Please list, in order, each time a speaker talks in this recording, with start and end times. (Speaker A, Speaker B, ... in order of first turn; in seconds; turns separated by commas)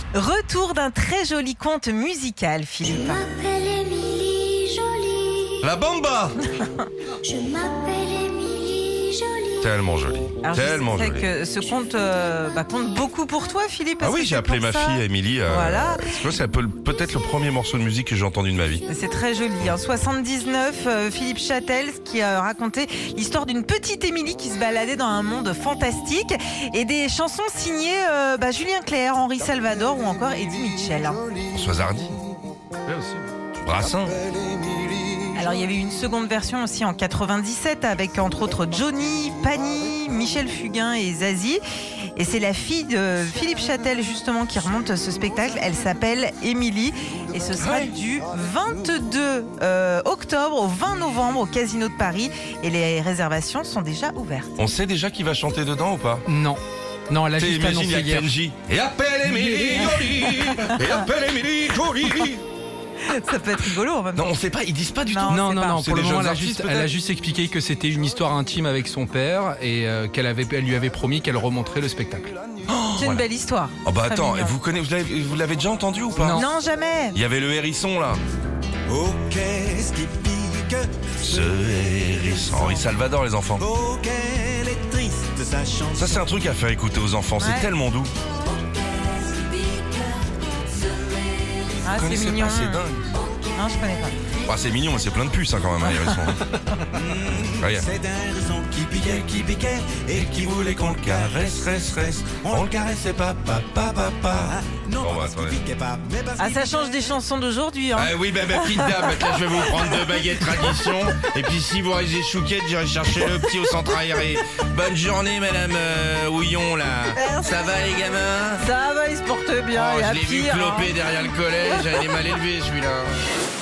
Speaker A: 0.1-3.3, Speaker B: 2.9-5.5, Speaker C: 5.6-6.4, Speaker B: 7.2-9.7, Speaker C: 9.6-11.3, Speaker A: 10.4-16.1, Speaker C: 14.0-18.8, Speaker A: 18.9-31.2, Speaker C: 31.5-32.2, Speaker C: 32.9-34.2, Speaker A: 35.3-41.6, Speaker A: 42.2-54.6, Speaker C: 47.6-47.9, Speaker C: 54.6-56.2, Speaker D: 56.3-58.2, Speaker C: 57.3-62.4, Speaker A: 59.7-60.1, Speaker A: 60.6-61.0, Speaker A: 63.0-64.3, Speaker C: 64.2-66.9, Speaker A: 65.1-65.9, Speaker D: 65.3-72.3, Speaker C: 72.7-73.2, Speaker A: 73.0-74.5, Speaker C: 73.8-76.5, Speaker D: 76.2-76.5, Speaker A: 76.2-77.2, Speaker C: 77.1-78.2, Speaker E: 78.9-82.9, Speaker C: 81.2-83.7, Speaker E: 83.6-86.3, Speaker C: 86.0-88.1, Speaker A: 87.4-87.7, Speaker E: 89.2-90.0, Speaker A: 91.8-92.8, Speaker C: 91.9-93.1, Speaker A: 93.6-94.3, Speaker C: 94.4-96.4, Speaker A: 95.9-96.2, Speaker E: 96.9-107.2, Speaker C: 97.5-97.9, Speaker C: 100.1-105.6, Speaker A: 106.4-111.3, Speaker C: 108.0-118.6, Speaker A: 113.2-114.4, Speaker A: 117.1-117.8, Speaker A: 118.6-122.2, Speaker C: 119.7-123.1